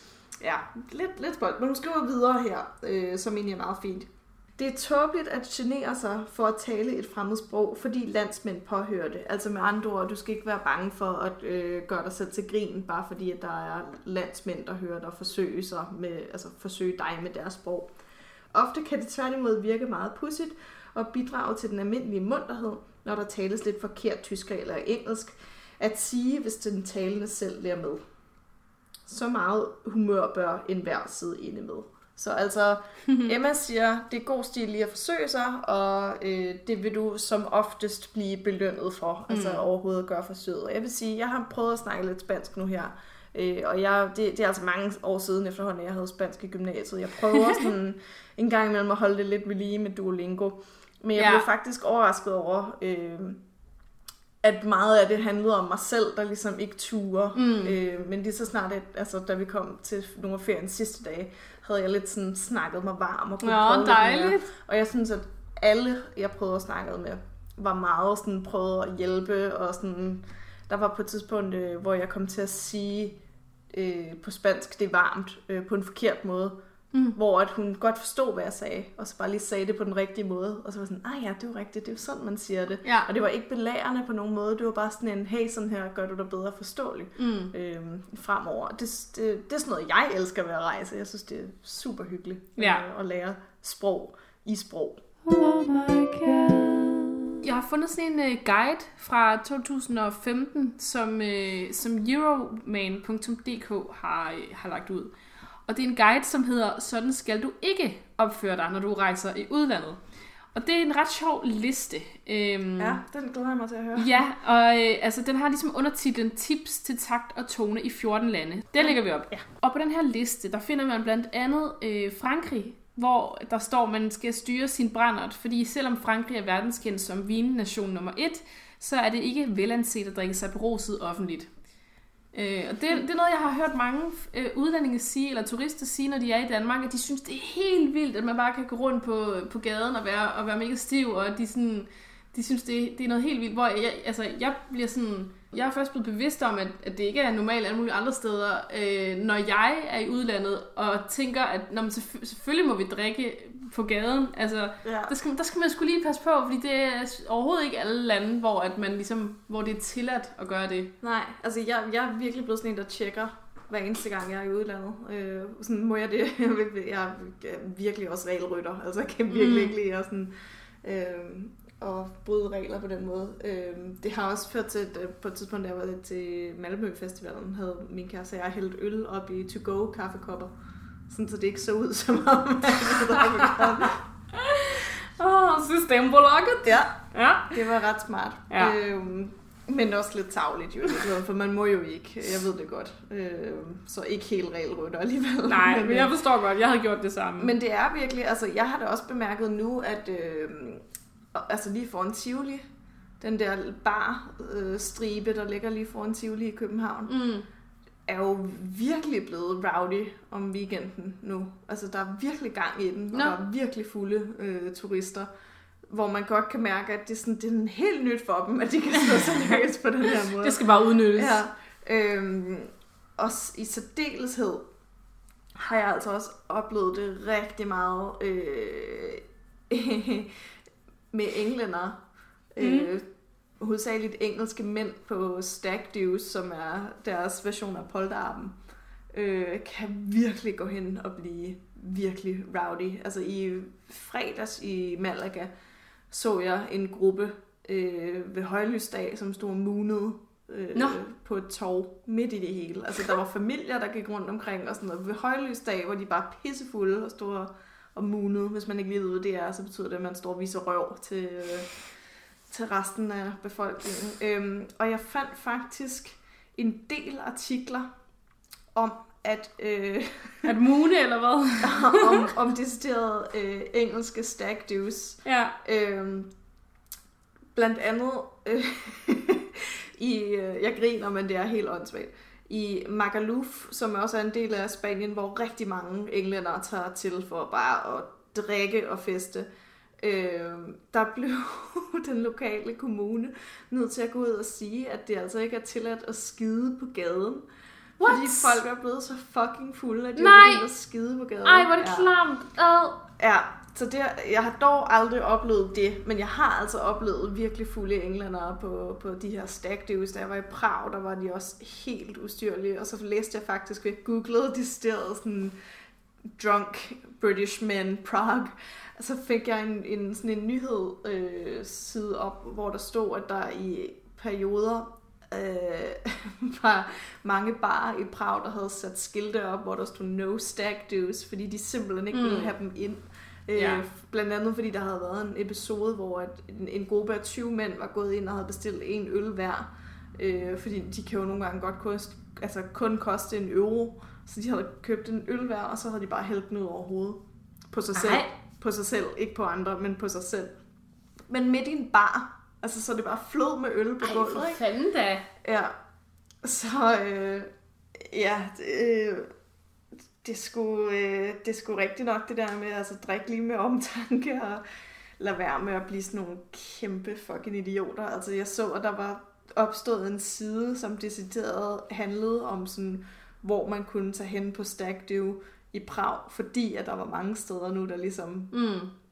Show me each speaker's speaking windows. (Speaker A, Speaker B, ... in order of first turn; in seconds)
Speaker A: 0.4-17.9, 18.5-28.0, 29.1-53.4, 54.4-73.2, 73.7-76.5, 77.2-95.0, 112.8-114.1, 118.8-119.4, 154.8-155.1, 161.0-170.3, 170.8-180.5, 181.1-184.0, 186.6-186.9, 187.5-196.1, 197.4-200.8, 201.3-202.7, 203.2-207.1, 208.1-215.3, 215.9-224.7, 225.6-230.3, 231.1-232.0, 232.5-233.0, 233.6-238.6, 239.1-245.5, 246.1-261.7, 262.5-267.9, 268.7-270.5, 271.6-276.3, 277.6-289.5, 290.0-297.5, 298.0-302.1, 303.2-315.6, 316.4-350.6, 351.3-354.6, 355.4-355.7, 356.4-359.3, 360.2-364.6, 365.2-378.5
Speaker B: 33.1-33.3, 39.3-39.6, 51.2-51.5, 57.4-57.8, 63.4-64.5, 82.8-83.1, 87.2-87.5, 92.6-92.8, 97.4-105.1, 105.7-110.0, 110.5-113.0, 114.0-131.5, 132.3-160.9, 169.3-169.8, 183.4-183.7, 184.3-187.6, 188.5-188.8, 195.5-197.5, 207.1-207.5, 220.3-221.4, 232.6-232.9, 250.7-251.0, 270.4-272.2, 275.2-275.6, 298.0-298.6, 300.2-300.7, 301.4-303.0, 332.1-332.5, 333.6-333.8, 347.9-348.3, 354.0-355.3, 378.5-378.9
Speaker C: 95.2-97.4